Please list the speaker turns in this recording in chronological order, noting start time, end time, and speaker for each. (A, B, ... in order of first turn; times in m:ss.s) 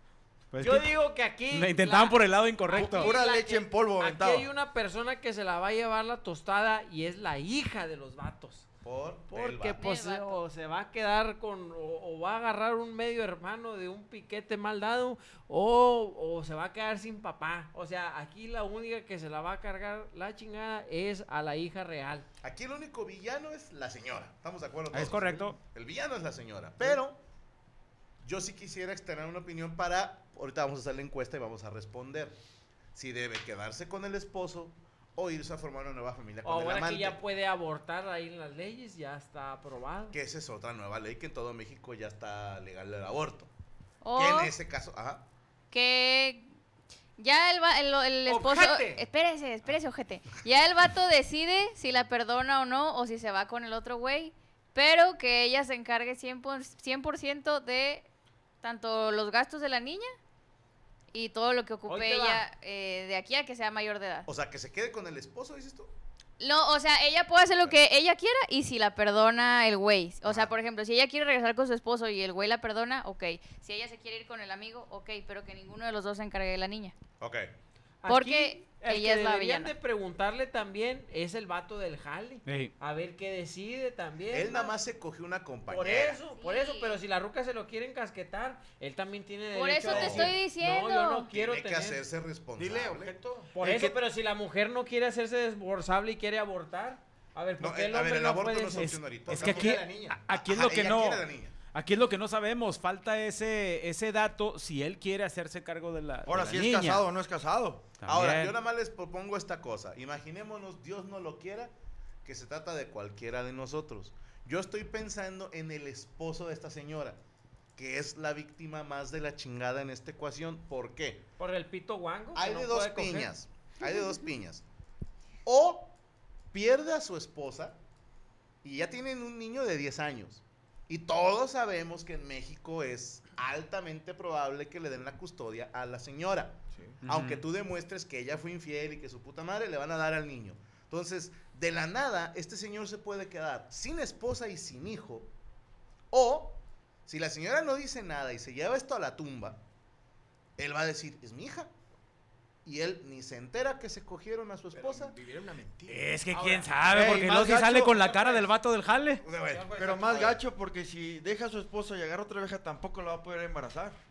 0:00.5-0:01.0 A
0:00.6-0:08.7 B
0:01.5-0:03.2 A
0:02.7-0:04.5 C
0:08.8-0:09.8 D
0:09.3-0:22.3 B
0:09.8-0:10.4 E
0:22.4-0:27.2 D
0:24.9-0:25.6 A
0:28.2-0:32.4 D
0:33.0-0:37.2 D
0:36.4-0:40.2 B
0:40.1-0:43.5 D
0:44.0-0:44.5 E
0:44.2-0:45.3 D
0:45.7-0:46.5 E
0:47.2-0:58.1 E
0:48.3-0:49.0 F
0:58.6-1:00.1 E
1:01.1-1:04.3 E
1:01.9-1:02.4 B
1:04.3-1:06.0 D
1:06.4-1:17.0 E
1:10.2-1:10.5 D
1:17.2-1:17.5 D
1:18.0-1:24.7 B
1:18.1-1:19.7 E
1:22.5-1:22.7 A
1:24.3-1:26.2 D
1:25.7-1:32.0 B
1:26.3-1:27.0 E
1:29.5-1:31.2 E
1:29.8-1:30.4 D
1:31.3-1:33.2 D
1:32.6-1:33.5 F
1:33.5-1:39.3 B
1:33.6-1:34.0 C
1:37.6-1:41.5 D
1:38.7-1:47.1 A
1:39.3-1:40.2 F
1:46.2-1:48.0 C
1:48.0-1:48.6 A
1:48.1-1:51.7 D
1:52.2-1:57.2 D
1:57.8-2:01.2 D
2:01.4-2:03.3 B
2:02.4-2:04.6 D
2:05.4-2:06.0 D
2:06.5-2:07.8 D
2:08.6-2:25.3 D
2:16.7-2:17.0 F
2:17.0-2:17.4 A
2:26.1-2:29.6 D
2:30.6-2:31.7 D
2:32.6-2:35.2 D
2:34.7-2:36.9 F
2:35.9-2:39.2 A
2:36.8-2:38.2 C
2:38.1-2:38.4 F
2:39.2-2:40.4 D
2:39.4-2:40.3 F
2:39.7-2:44.0 C